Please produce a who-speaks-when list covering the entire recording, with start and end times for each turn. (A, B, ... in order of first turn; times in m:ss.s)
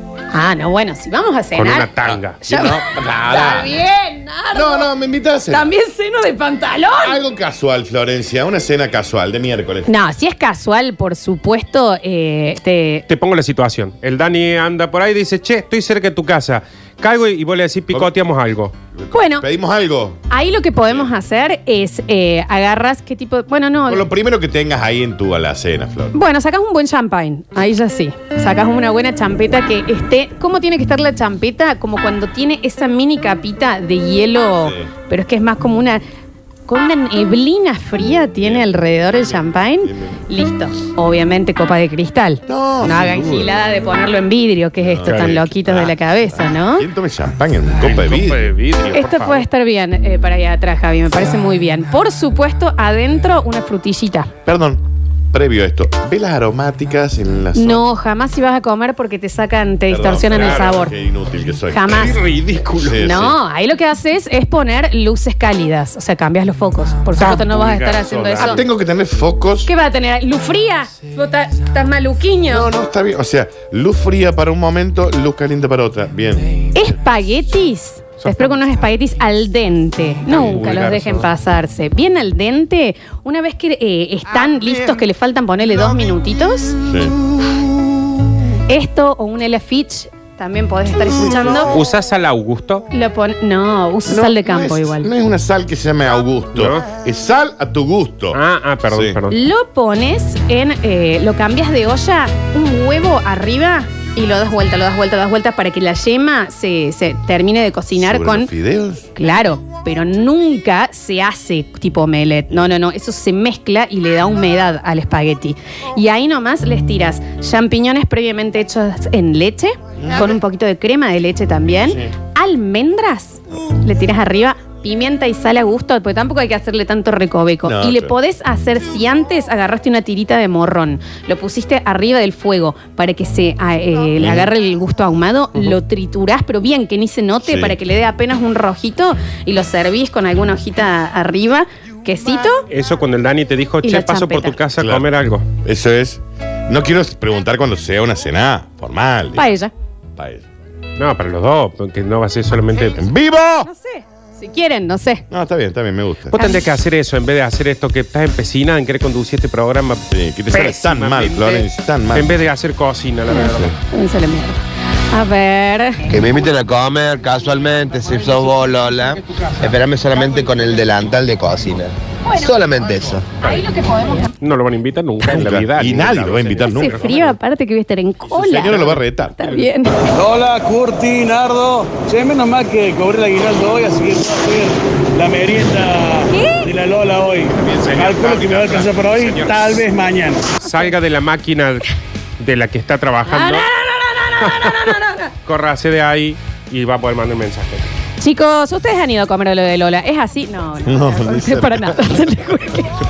0:00.3-0:01.9 A
0:01.5-0:02.4 B
0:02.0-0:03.7 C
0:02.4-0:04.9 A
0:04.5-0:05.7 C
0:05.5-0:07.2 A
0:07.0-0:09.9 C
0:09.9-0:13.0 A
0:13.1-0:18.7 B
0:18.9-0:20.2 C
0:19.1-0:19.4 A
0:20.3-0:24.1 A
0:20.8-0:21.1 C
0:23.9-0:26.2 C
0:26.1-0:36.0 A
0:34.6-0:34.9 C
0:36.7-0:46.9 A
0:38.4-0:40.2 C
0:42.5-0:43.6 C
0:44.8-0:48.5 C
0:45.0-0:45.3 B
0:47.8-0:49.4 B
0:48.9-0:54.3 A
0:54.4-0:54.8 C
0:55.3-0:57.8 C
0:57.5-1:01.0 A
0:59.9-1:02.2 C
1:00.3-1:00.8 B
1:01.7-1:02.2 A
1:01.9-1:03.1 B
1:02.8-1:03.4 C
1:03.0-1:08.6 A
1:07.2-1:08.6 B
1:08.4-1:09.7 C
1:09.6-1:12.7 A
1:12.5-1:16.5 C
1:16.7-1:26.8 A
1:18.2-1:18.6 B
1:20.3-1:21.3 B
1:26.8-1:27.1 C
1:28.7-1:31.8 A
1:31.2-1:31.8 C
1:31.7-1:32.8 B
1:32.9-1:35.1 A
1:34.1-1:39.2 C
1:36.5-1:36.8 B
1:38.3-1:39.4 B
1:39.3-1:48.5 A
1:48.0-1:49.1 C
1:49.1-2:22.6 A
2:00.0-2:00.4 C
2:07.6-2:08.2 C
2:14.2-2:14.5 C
2:17.5-2:17.8 C
2:22.7-2:25.4 B
2:23.8-2:24.6 A
2:24.8-2:25.1 C
2:25.6-2:29.5 C
2:29.3-2:29.7 A
2:30.2-2:30.4 C
2:31.0-2:33.0 B
2:33.0-2:33.7 C
2:33.6-2:35.2 A
2:35.3-2:36.4 C
2:36.3-2:43.8 B
2:36.3-2:36.6 A
2:40.1-2:42.4 C
2:43.4-2:43.7 C
2:43.9-2:44.6 A
2:45.1-2:46.1 A
2:46.1-2:53.2 D
2:52.3-2:52.5 A
2:53.4-2:54.3 A
2:54.4-2:57.4 B
2:55.2-2:57.0 C
2:56.6-3:00.0 A
2:58.3-2:59.6 C
3:00.1-3:10.6 E
3:06.3-3:06.7 A
3:07.5-3:09.1 C
3:07.8-3:08.2 B
3:09.1-3:09.8 B
3:10.6-3:11.8 B
3:10.6-3:10.9 A
3:12.4-3:13.7 B
3:13.2-3:15.3 A
3:14.4-3:17.8 B
3:18.2-3:23.0 A
3:20.8-3:22.1 C